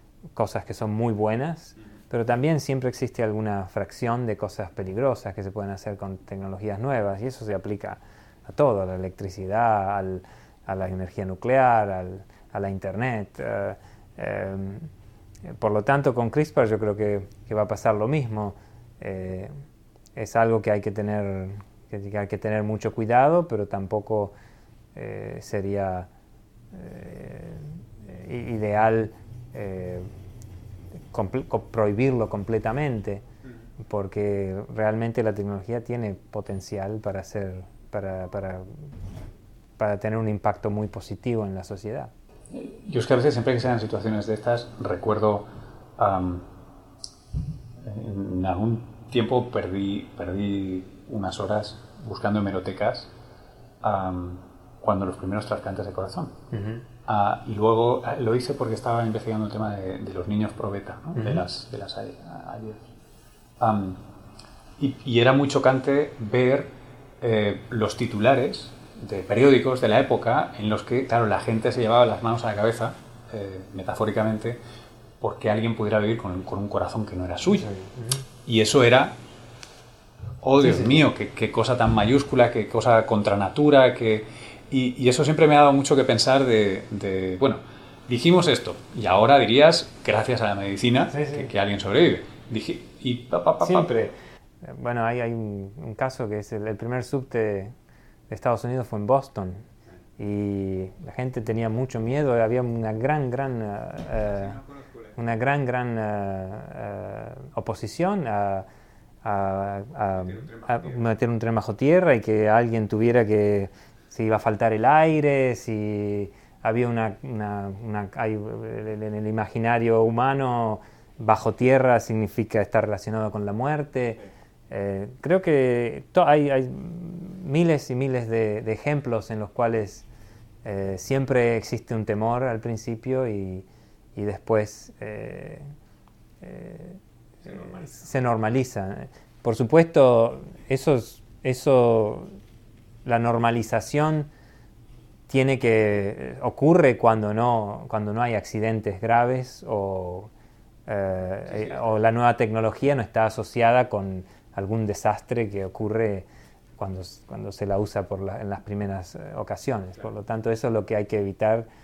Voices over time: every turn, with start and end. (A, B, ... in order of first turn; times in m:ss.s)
0:00.4-0:14.9 A
0:15.5-0:19.5 A
0:20.2-0:24.4 A
0:25.0-0:26.1 A
0:26.7-0:30.1 A
0:31.1-0:33.2 A
0:33.9-0:38.8 A
0:39.8-0:42.1 A
0:42.5-0:46.5 B
0:47.8-0:53.1 B
0:53.8-0:56.4 B
0:56.5-0:56.8 A
0:57.0-1:02.9 B
1:01.2-1:01.4 A
1:03.6-1:04.0 B
1:04.8-1:14.6 B
1:15.2-1:17.7 B
1:17.5-1:18.2 A
1:18.4-1:19.2 B
1:20.4-1:33.9 B
1:20.6-1:21.0 A
1:31.1-1:31.5 A
1:33.6-1:37.7 A
1:38.3-1:39.7 A
1:40.2-1:44.6 A
1:45.2-1:48.7 A
1:49.2-2:10.1 A
1:50.4-1:50.9 B
2:10.6-2:15.7 A
2:16.4-2:22.3 A
2:23.0-2:24.3 A
2:25.3-2:30.3 A
2:30.9-2:41.7 A